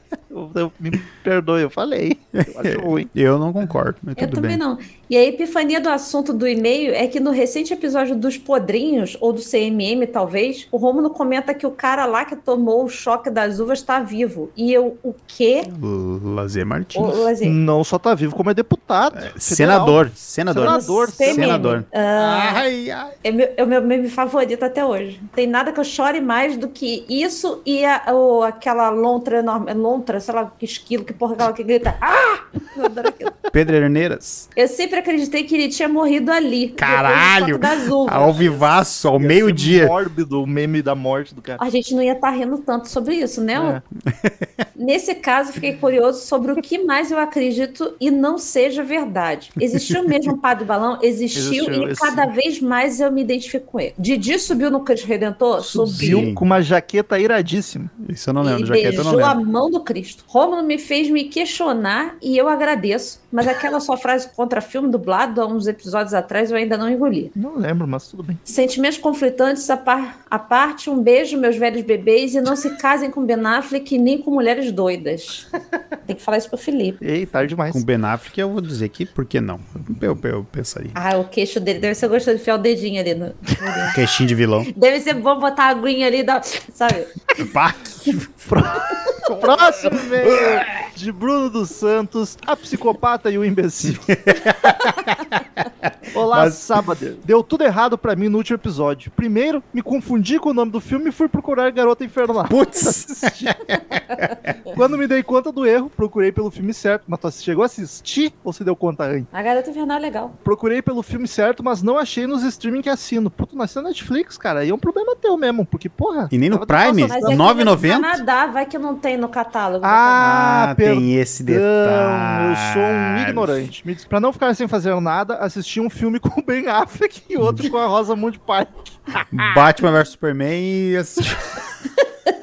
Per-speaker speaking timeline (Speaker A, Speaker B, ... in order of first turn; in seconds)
Speaker A: 0.3-3.1, 17.4-21.7, 39.2-41.6, 43.5-43.8, 51.4-52.3, 55.8-57.9, 67.4-68.4, 77.0-77.8, 88.5-94.1, 96.1-103.6, 104.7-109.3, 110.4-117.4, 119.8-129.2
Speaker B: 2.4-4.6, 15.7-17.2, 19.1-23.1, 33.5-34.5, 36.8-39.9, 44.1-44.5, 49.7-50.3, 55.7-56.4, 58.0-59.4, 77.7-81.0, 83.9-84.7, 87.4-88.7, 89.2-90.8, 94.0-96.7, 102.5-104.5, 116.3-118.2, 120.2-123.7, 129.3-131.6
Speaker C: 4.2-15.7, 16.9-17.6, 20.6-22.6, 23.2-33.4, 34.6-38.7, 41.6-43.8, 44.8-56.3, 58.4-67.3, 68.5-75.5, 76.1-77.0, 81.0-84.0, 84.7-87.2, 104.1-104.3, 109.3-110.3, 117.1-120.2